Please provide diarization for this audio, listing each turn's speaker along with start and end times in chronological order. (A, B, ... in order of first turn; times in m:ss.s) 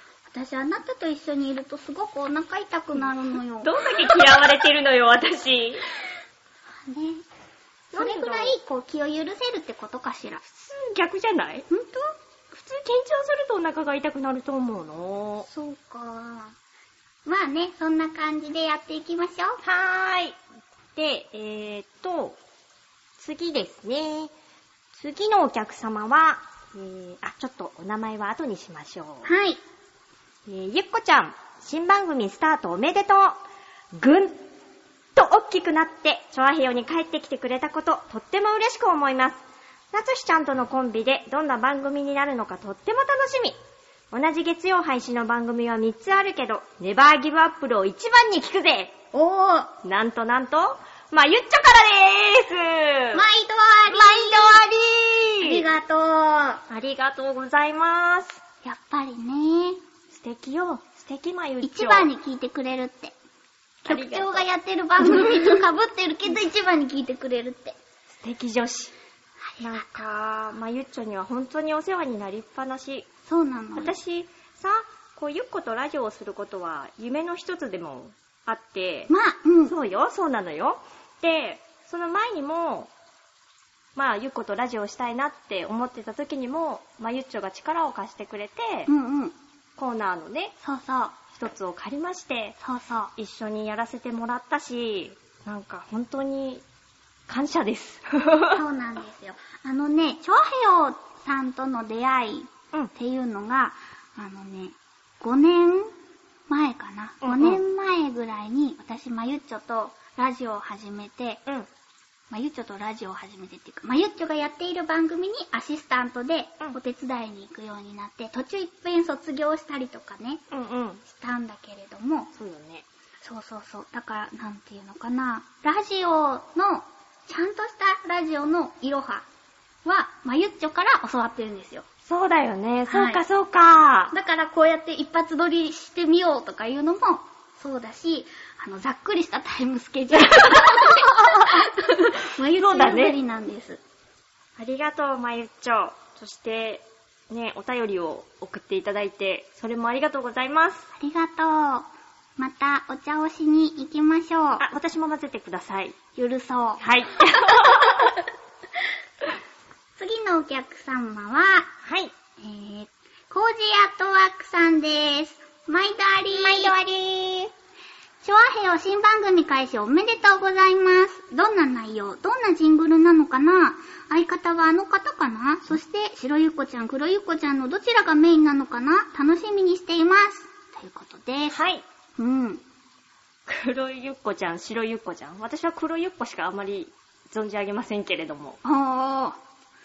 0:00.3-0:03.9 A
0:03.6-0:05.8 B
0:06.8-0:07.2 A
0:07.9-0:08.6 B
0:07.9-0:10.4 A
0:10.4-0:11.7 B
0:11.7-0:12.1 A
0:12.5-0:15.5 B
0:15.4-0:16.6 A
0:17.3-0:19.6 A
0:19.6-0:20.4 B
0:21.0-0:22.4 B
0:23.2-0:24.3 B
0:24.9-0:29.3 B
0:29.2-0:29.6 A
0:30.5-0:33.4 B
0:34.0-0:34.4 B
0:35.2-0:43.6 B
0:44.1-0:49.0 B
0:49.1-0:49.7 A
0:49.8-0:53.2 B
0:53.1-0:54.6 A
0:53.9-0:55.6 B
0:55.4-0:56.6 A
0:56.7-0:58.4 B
0:58.6-0:59.8 A
1:00.1-1:02.1 B
1:01.6-1:03.1 A
1:03.8-1:07.8 A
1:03.9-1:04.5 B
1:05.0-1:05.6 B
1:08.1-1:08.9 B
1:09.4-1:09.9 A
1:09.6-1:13.1 B
1:13.3-1:14.0 A
1:13.8-1:19.1 B
1:19.1-1:19.8 A
1:19.7-1:22.9 B
1:24.0-1:28.9 B
1:28.9-1:29.4 A
1:29.8-1:30.6 B
1:30.6-1:31.2 A
1:31.3-1:32.6 B
1:32.6-1:33.1 A
1:33.2-1:36.6 B
1:37.3-1:38.6 B
1:38.5-1:46.0 A
1:46.5-1:51.4 A
1:47.2-1:47.6 B
1:52.3-2:00.4 A
2:00.5-2:01.0 B
2:01.0-2:02.3 A
2:02.4-2:02.8 B
2:03.2-2:09.3 A
2:09.8-2:11.9 A
2:12.0-2:14.1 B
2:12.9-2:13.2 A
2:14.1-2:23.8 A
2:20.2-2:21.7 B
2:22.6-2:23.2 B
2:24.6-2:30.9 B
2:31.0-2:34.6 A
2:34.6-2:36.0 B
2:36.2-2:36.8 A
2:36.8-2:38.2 B
2:40.0-2:41.7 A
2:41.8-2:42.1 B
2:42.4-2:46.8 A
2:46.3-2:47.5 B
2:48.2-3:01.6 A
3:01.5-3:01.8 B
3:02.2-3:02.6 A
3:03.5-3:08.6 B
3:08.6-3:09.4 A